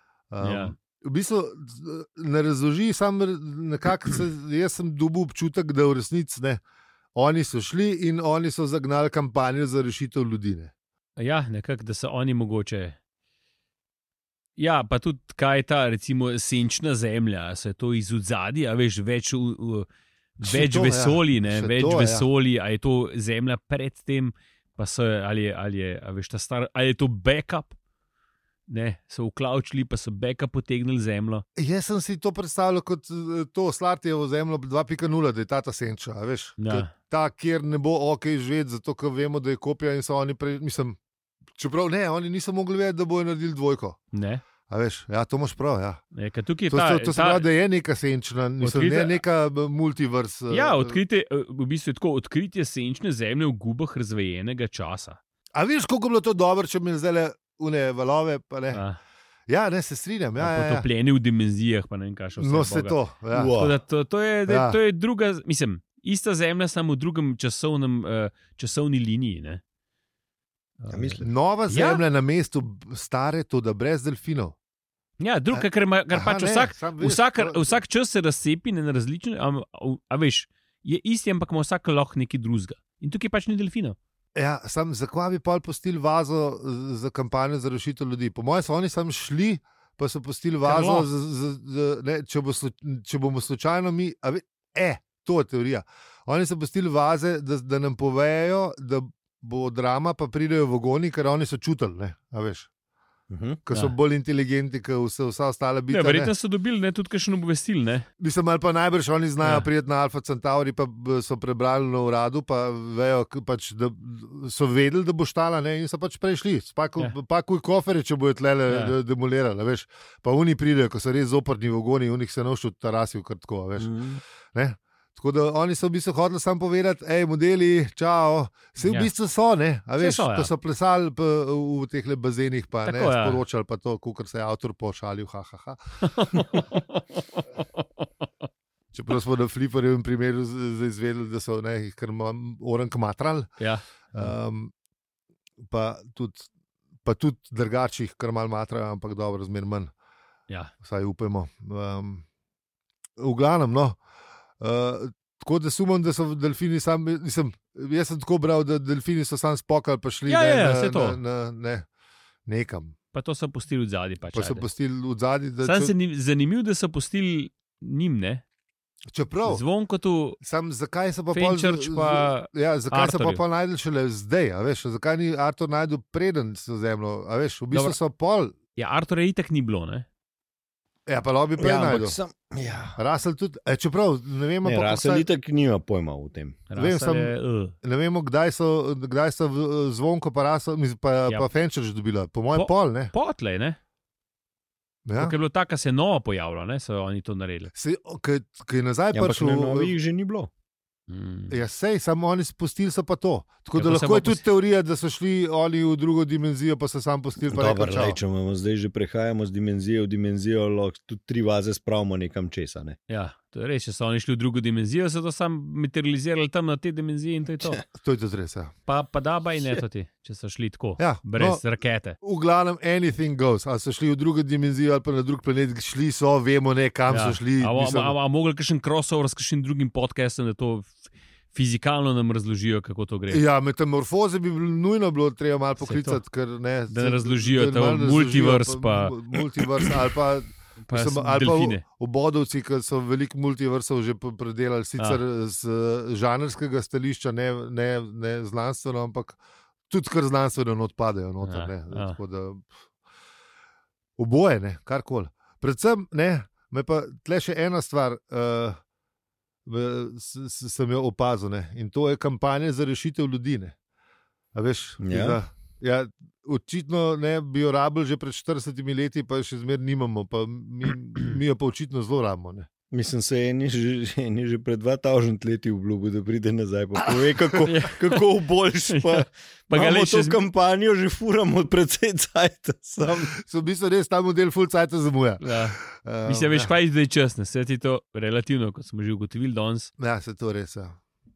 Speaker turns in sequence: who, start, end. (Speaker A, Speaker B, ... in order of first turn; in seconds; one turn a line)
Speaker A: 0.3-6.6
Speaker B: 0.4-0.7
Speaker A: 7.2-10.7
Speaker B: 11.2-13.0
Speaker B: 14.6-19.9
Speaker B: 20.4-27.7
Speaker A: 20.4-22.3
Speaker B: 28.7-31.4
Speaker A: 31.6-41.0
Speaker B: 36.6-36.9
Speaker A: 41.6-44.0
Speaker B: 44.1-44.4
Speaker A: 44.7-46.0
Speaker B: 46.1-47.5
Speaker A: 46.7-51.0
Speaker B: 48.6-49.2
Speaker B: 50.5-55.2
Speaker A: 55.5-58.8
Speaker B: 58.7-59.0
Speaker A: 59.5-60.9
Speaker B: 60.4-63.0
Speaker A: 62.4-63.6
Speaker C: 63.3-63.8
Speaker B: 63.5-69.6
Speaker A: 64.5-64.8
Speaker B: 70.8-72.0
Speaker C: 70.9-71.2
Speaker A: 71.2-74.5
Speaker B: 75.2-84.0
Speaker A: 75.5-77.8
Speaker A: 84.3-102.7
Speaker B: 90.6-91.1
Speaker C: 103.3-103.6
Speaker A: 103.7-106.3
Speaker B: 105.9-108.0
Speaker A: 108.2-124.0
Speaker B: 109.4-109.7
Speaker B: 118.7-118.9
Speaker C: 123.8-124.2
Speaker A: 124.5-136.4
Speaker B: 128.8-129.1
Speaker B: 130.0-130.5
Speaker B: 132.8-133.4
Speaker B: 136.0-138.2
Speaker A: 138.9-143.5
Speaker B: 143.6-144.3
Speaker A: 144.1-144.7
Speaker A: 145.7-146.5
Speaker A: 147.0-149.9
Speaker A: 150.8-152.2
Speaker A: 153.2-154.0
Speaker A: 154.6-161.8
Speaker B: 160.3-161.2
Speaker A: 162.5-162.9
Speaker B: 163.1-164.7
Speaker A: 164.3-165.9
Speaker B: 165.6-168.4
Speaker A: 169.1-169.6
Speaker B: 169.4-170.4
Speaker A: 170.4-178.5
Speaker B: 171.3-173.4
Speaker B: 177.7-178.0
Speaker B: 178.8-180.1
Speaker A: 181.1-182.2
Speaker C: 181.6-183.0
Speaker A: 183.0-185.3
Speaker C: 184.6-186.6
Speaker B: 186.7-187.7
Speaker A: 186.8-193.1
Speaker B: 192.5-193.8
Speaker A: 195.1-195.3
Speaker B: 195.2-197.7
Speaker A: 197.8-199.9
Speaker C: 199.1-200.5
Speaker B: 201.1-201.6
Speaker A: 201.5-208.2
Speaker B: 203.8-204.4
Speaker C: 207.5-213.0
Speaker B: 213.1-217.8
Speaker A: 217.9-218.7
Speaker B: 218.9-222.2
Speaker A: 221.0-221.6
Speaker A: 222.2-228.2
Speaker B: 227.1-231.0
Speaker B: 231.5-233.4
Speaker A: 233.3-249.4
Speaker B: 235.8-236.2
Speaker B: 236.9-239.4
Speaker B: 240.8-241.8
Speaker A: 249.9-252.7
Speaker B: 251.4-252.2
Speaker A: 254.2-258.8
Speaker A: 259.6-263.7
Speaker A: 264.5-272.7
Speaker C: 265.0-265.4
Speaker C: 272.9-283.3
Speaker A: 277.2-277.6
Speaker B: 277.6-278.2
Speaker B: 278.9-280.4
Speaker A: 283.3-286.7
Speaker B: 285.4-289.9
Speaker A: 290.0-291.0